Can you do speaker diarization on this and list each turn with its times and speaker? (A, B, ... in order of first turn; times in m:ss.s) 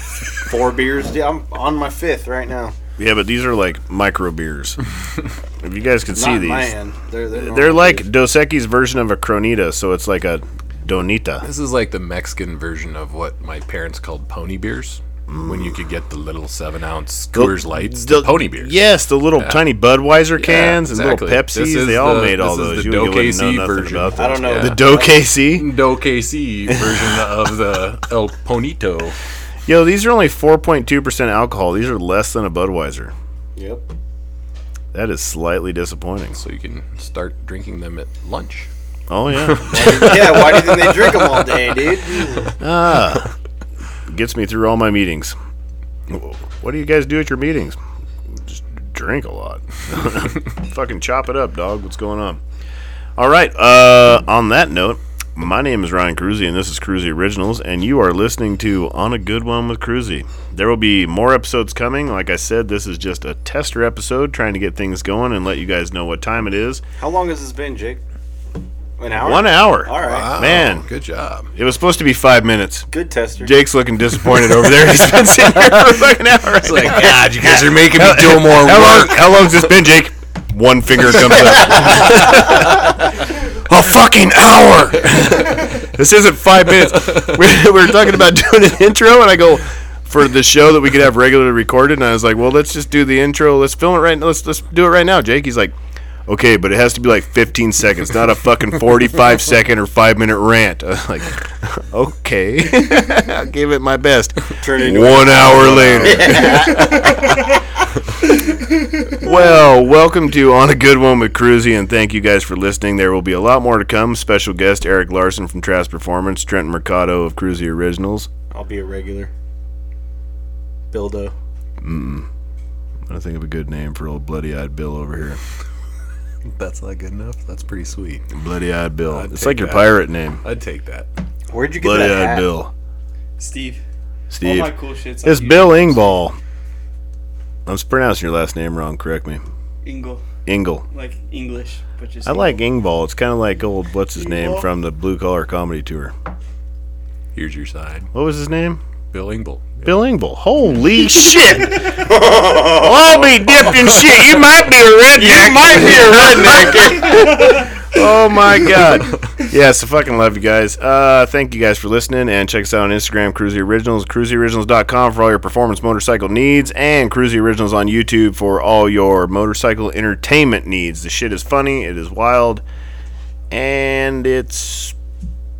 0:00.4-0:02.8 A
0:03.0-0:04.8 B
0:05.6-0:06.7 B
0:06.1-0:08.1 A
0:07.3-0:11.4 B
0:11.4-0:18.8 C
0:15.3-0:15.7 B
0:17.3-0:25.7 B
0:19.4-0:19.6 C
0:20.4-0:29.2 C
0:24.1-0:25.1 A
0:26.9-0:27.2 B
0:29.7-0:33.1 B
0:33.6-0:33.9 A
0:34.9-0:36.4 B
0:36.4-0:38.7 C
0:39.1-0:41.1 B
0:39.4-0:40.5 C
0:39.7-0:42.6 A
0:42.6-0:43.3 B
0:44.1-0:45.3 B
0:46.1-0:47.8 B
0:48.4-0:52.4 B
0:53.2-1:06.8 B
1:07.0-1:08.0 A
1:09.0-1:10.3 A
1:09.1-1:10.8 B
1:10.0-1:11.5 C
1:11.5-1:12.9 B
1:12.9-1:13.6 A
1:13.4-1:35.7 B
1:16.6-1:19.7 C
1:36.3-1:47.4 B
1:44.6-1:47.1 A
1:45.7-1:46.3 C
1:49.0-1:58.3 B
1:58.5-1:59.3 A
2:00.9-2:01.3 A
2:01.8-2:02.3 B
2:03.1-2:05.4 B
2:06.4-2:08.3 C
2:08.3-2:10.4 B
2:09.1-2:11.1 C
2:11.5-2:12.4 A
2:11.8-2:12.7 B
2:13.4-2:13.8 D
2:14.3-2:16.4 B
2:14.4-2:16.2 D
2:17.7-2:19.4 B
2:19.8-2:20.2 D
2:20.4-2:20.8 B
2:20.9-2:22.5 D
2:22.2-2:26.1 B
2:24.3-2:24.6 D
2:27.3-2:28.1 C
2:28.1-2:28.8 B
2:29.1-2:29.8 C
2:29.8-2:52.6 B
2:31.8-2:33.2 A
2:35.1-2:37.7 A
2:35.9-2:36.6 C
2:53.5-2:55.0 B